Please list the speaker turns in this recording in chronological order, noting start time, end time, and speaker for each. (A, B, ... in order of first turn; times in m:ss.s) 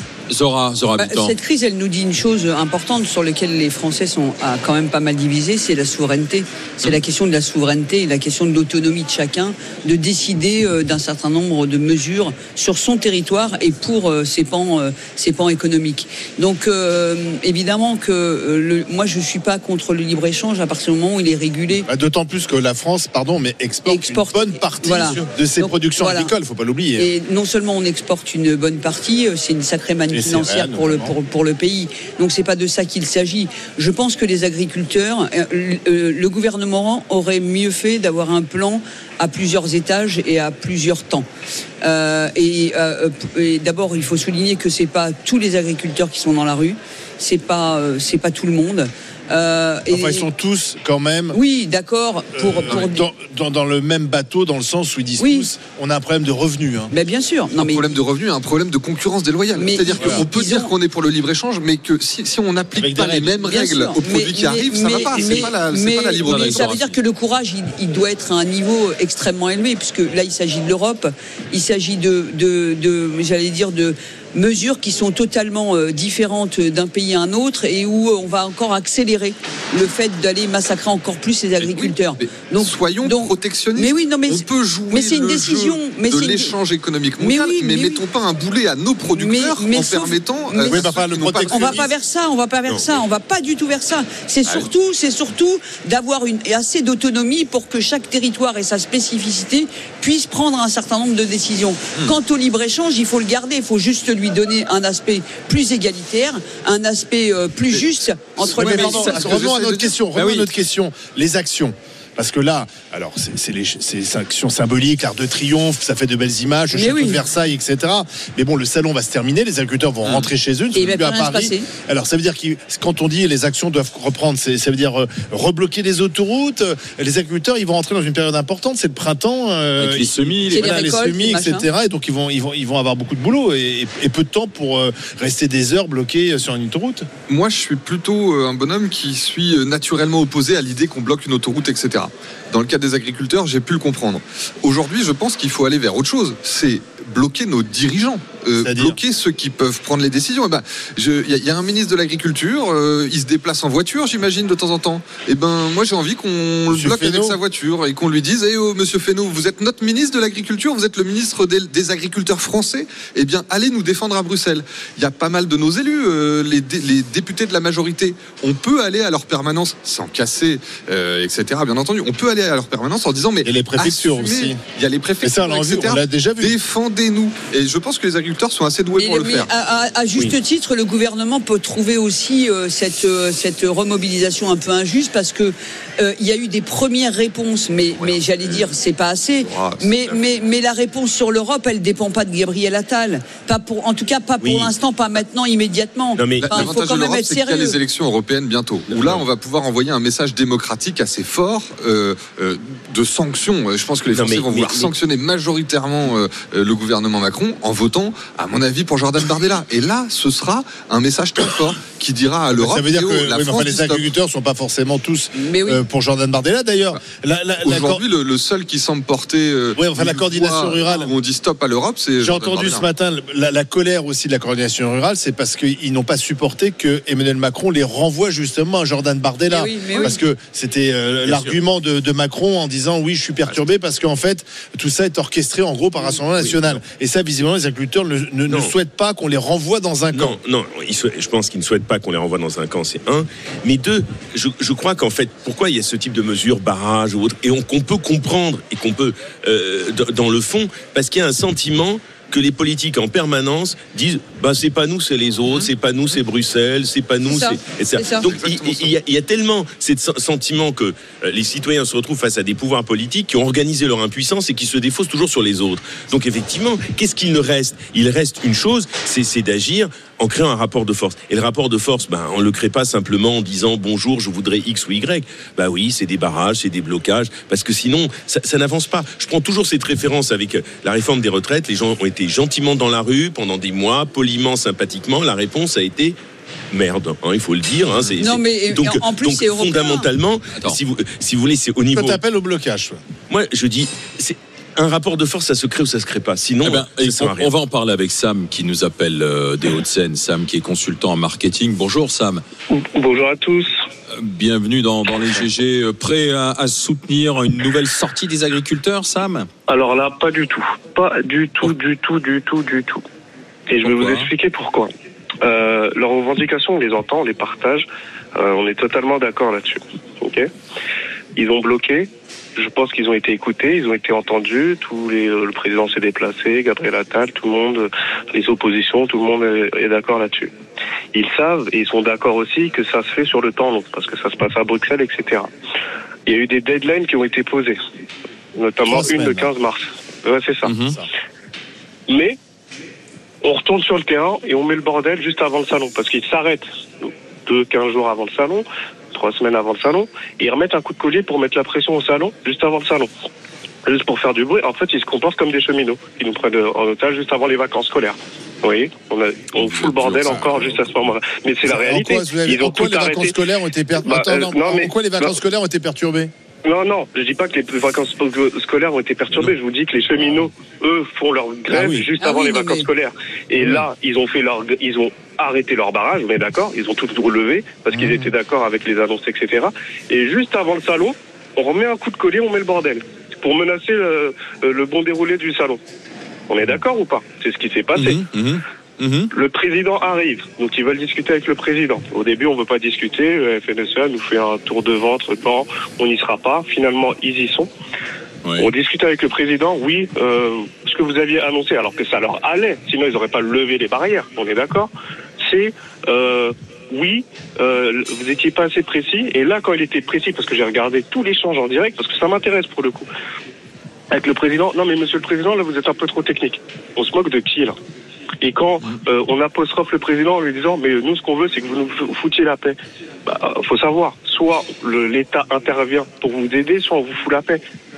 0:00.3-0:01.3 A
0:01.0-0:21.9 B
0:21.9-0:27.1 C
0:23.9-0:26.3 B
0:27.0-0:41.3 B
0:30.1-0:31.1 C
0:41.8-0:50.3 B
0:49.9-0:51.4 C
0:51.3-0:53.0 B
0:52.4-0:56.9 C
0:55.2-0:55.5 B
0:56.9-0:57.9 B
0:57.6-1:06.9 D
0:59.6-1:00.7 B
1:02.8-1:03.4 C
1:03.4-1:26.6 B
1:05.2-1:05.5 A
1:06.2-1:06.8 A
1:21.6-1:31.9 D
1:27.2-1:28.0 B
1:29.1-1:49.3 B
1:30.7-1:31.9 C
1:48.4-1:50.0 D
1:48.5-2:17.1 C
1:49.0-1:49.4 A
1:50.2-1:50.5 A
1:56.7-1:57.2 B
2:00.7-2:01.7 B
2:09.8-2:10.8 A
2:10.5-2:11.7 B
2:17.3-2:59.5 D
2:28.6-2:29.0 C
2:36.7-2:37.4 C
2:53.4-2:54.6 C
2:55.2-2:56.6 C
2:58.9-3:17.8 B
3:08.0-3:08.7 D
3:09.4-3:10.2 D
3:14.4-3:14.7 E
3:16.2-3:16.7 E
3:16.4-3:34.0 D
3:19.0-3:19.2 E
3:24.1-3:24.9 E
3:32.5-3:38.0 C
3:35.4-3:35.8 B
3:37.6-3:42.8 D
3:39.8-3:41.1 C
3:42.2-4:00.4 C
3:49.5-3:50.2 B
3:51.3-3:51.6 E
3:56.4-3:56.8 E
4:00.1-4:46.2 E
4:17.3-4:18.3 B
4:18.2-4:18.9 D
4:46.7-4:52.2 E
4:48.2-4:50.1 B
4:51.9-4:53.0 C
4:53.3-4:57.5 E
4:56.6-5:02.4 A
5:02.7-5:03.8 F
5:04.2-5:09.5 A
5:09.7-5:13.0 F
5:13.7-5:14.9 F
5:13.8-5:14.3 A
5:15.4-5:20.5 F
5:21.4-5:30.5 F
5:31.1-5:35.5 F
5:36.3-5:37.8 F
5:38.6-5:40.7 F
5:38.8-5:39.5 C
5:40.7-5:41.0 A
5:42.1-5:42.4 F
5:43.4-5:53.1 F
5:53.9-6:03.4 F
6:00.0-6:00.9 E
6:01.6-6:06.3 C
6:04.0-6:05.3 F
6:06.6-6:25.8 F
6:11.7-6:12.1 C
6:12.2-6:12.9 B
6:13.6-6:13.9 C
6:17.9-6:18.3 C
6:26.5-6:28.2 F
6:28.0-6:29.3 A
6:29.3-6:37.7 F
6:38.4-6:38.7 A
6:38.6-6:44.9 F
6:45.4-6:53.1 F
6:54.1-6:57.8 F
6:58.4-7:07.6 F